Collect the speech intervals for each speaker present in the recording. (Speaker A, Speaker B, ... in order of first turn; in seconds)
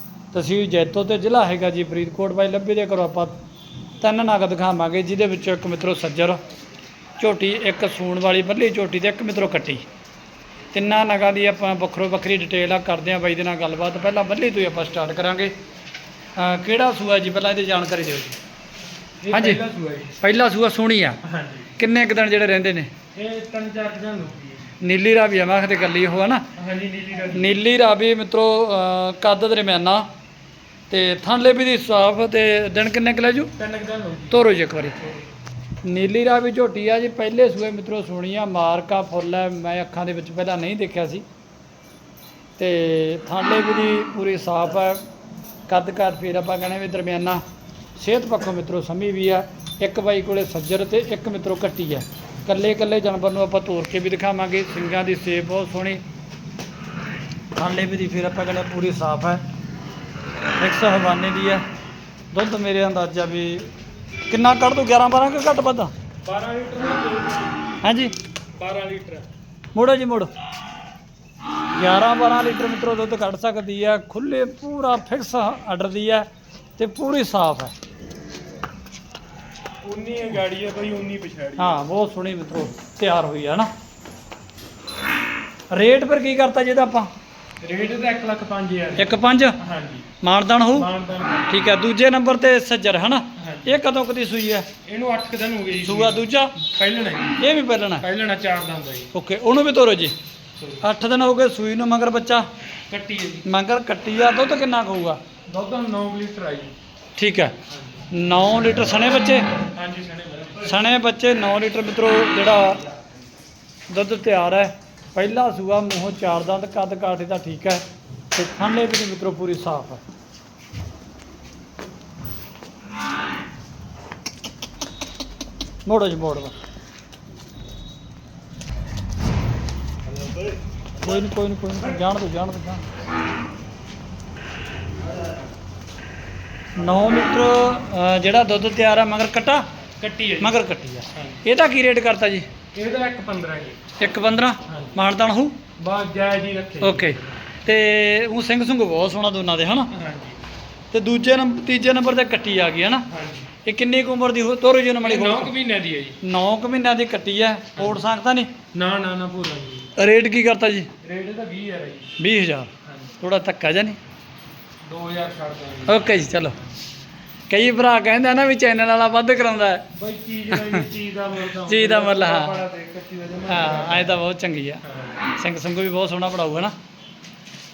Speaker A: 0.3-3.4, 4.0-6.4, 7.2-9.8, 10.7-15.5, 16.3-18.4, 19.3-19.6, 20.2-21.2, 21.8-22.9, 24.8-26.4, 27.3-30.1, 30.9-33.5, 34.3-35.0, 35.8-41.2, 42.6-45.0, 45.7-47.4, 48.0-56.0, 57.5-59.4, 60.6-61.6, 62.3-63.7, 64.3-65.9, 67.8-68.1, 69.7-70.3, 71.8-77.7, 81.6-83.7, 85.7-87.1, 89.0-89.6, 90.2-90.9, 91.5-94.7, 95.8-96.6, 97.4-98.0, 99.1-100.1, 100.8-102.5, 103.4-105.2, 107.2-107.6, 108.1-109.5, 110.6-112.9, 113.9-120.0, 125.8-126.5, 131.0-132.8, 136.8-139.7, 140.4-142.5, 144.0-145.6, 146.8-149.9, 150.9-153.1, 153.6-155.5, 156.2-158.5, 159.9-160.9, 162.2-164.0, 165.9-166.6, 167.5-169.8, 171.6-172.6, 173.5-174.8, 175.3-176.7
Speaker B: 19.2-20.2, 21.2-21.7, 23.1-24.7, 26.5-27.6, 33.6-34.4, 66.2-67.5, 68.5-69.3, 79.8-81.8, 87.6-90.1, 90.7-91.7, 93.3-93.8, 94.8-97.4, 98.0-99.1, 100.5-100.8, 102.9-103.5, 105.5-106.7, 107.7-108.0, 109.7-110.7, 140.0-140.6, 141.1-141.4, 142.7-143.8, 144.7-145.0, 145.8-147.4, 149.9-150.4, 153.1-153.5, 155.0-156.2, 157.8-158.0, 158.7-159.9, 161.0-162.2, 162.8-163.1, 164.8-166.6, 169.9-174.2, 174.8-175.2